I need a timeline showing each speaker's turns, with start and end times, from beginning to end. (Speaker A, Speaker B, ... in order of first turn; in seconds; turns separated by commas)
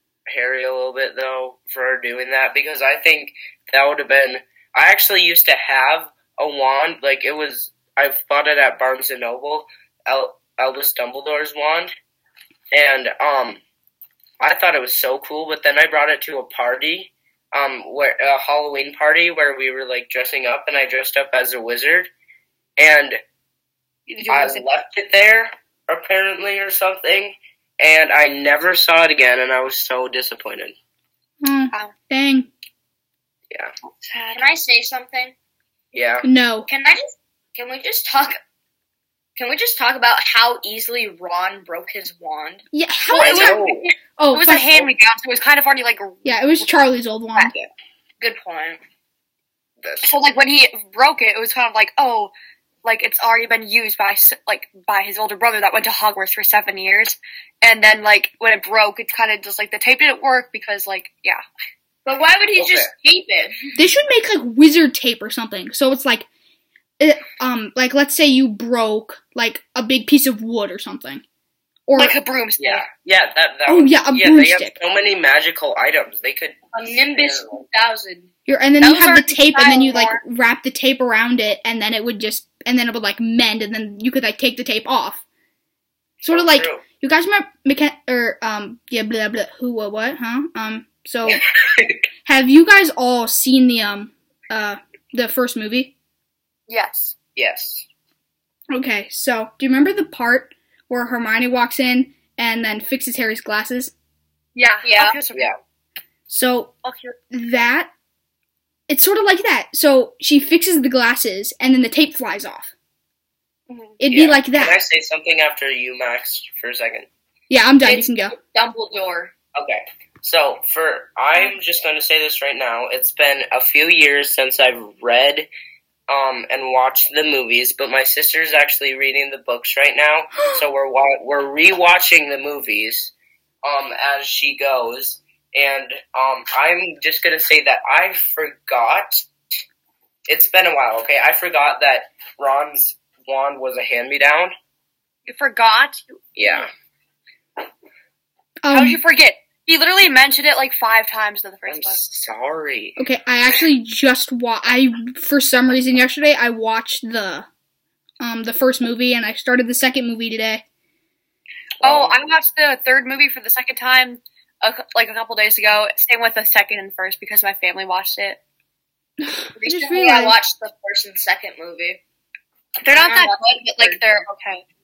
Speaker A: 0.3-11.9, Speaker A: 12.7-13.6, Speaker A: 14.4-22.1, Speaker A: 22.8-23.2, Speaker B: 24.1-24.6, Speaker A: 24.3-30.7, Speaker C: 31.4-32.5, Speaker B: 33.9-34.5, Speaker D: 34.3-35.3, Speaker A: 35.9-36.2, Speaker C: 36.2-36.7, Speaker D: 36.7-38.4, Speaker D: 39.4-42.6, Speaker C: 42.7-43.6, Speaker B: 43.1-46.7, Speaker A: 43.2-43.9, Speaker C: 44.2-44.7, Speaker C: 46.2-47.5, Speaker D: 48.2-48.8, Speaker A: 49.8-50.1, Speaker B: 50.0-52.3, Speaker B: 52.8-61.4, Speaker D: 62.0-63.9, Speaker A: 62.6-62.9, Speaker C: 63.8-66.3, Speaker C: 67.0-71.2, Speaker C: 71.9-72.1, Speaker B: 71.9-72.8, Speaker A: 72.6-77.6, Speaker C: 73.7-74.8, Speaker D: 76.7-78.3, Speaker C: 78.5-85.2, Speaker B: 78.8-80.2, Speaker C: 86.2-91.4, Speaker A: 86.2-86.8, Speaker A: 91.2-92.0, Speaker C: 92.2-95.9, Speaker B: 96.7-97.1, Speaker A: 97.3-97.8, Speaker C: 98.7-103.9, Speaker B: 104.5-105.5, Speaker D: 104.8-105.2, Speaker C: 106.3-106.7, Speaker B: 106.8-107.1, Speaker C: 107.3-107.9, Speaker C: 108.9-112.7, Speaker C: 114.0-114.8, Speaker A: 114.1-117.1, Speaker C: 117.5-118.4, Speaker D: 117.8-119.3, Speaker A: 119.5-125.5, Speaker A: 126.1-133.1, Speaker C: 130.3-130.6, Speaker A: 133.6-139.3, Speaker A: 140.3-144.5, Speaker B: 145.3-146.6, Speaker A: 146.4-146.7, Speaker C: 148.6-149.0, Speaker B: 148.7-152.0, Speaker A: 151.7-153.0, Speaker C: 153.0-157.5, Speaker C: 158.2-160.6, Speaker B: 161.8-168.4, Speaker A: 161.8-162.1, Speaker C: 169.2-170.3, Speaker D: 169.6-172.0, Speaker B: 172.8-174.6, Speaker D: 172.9-174.0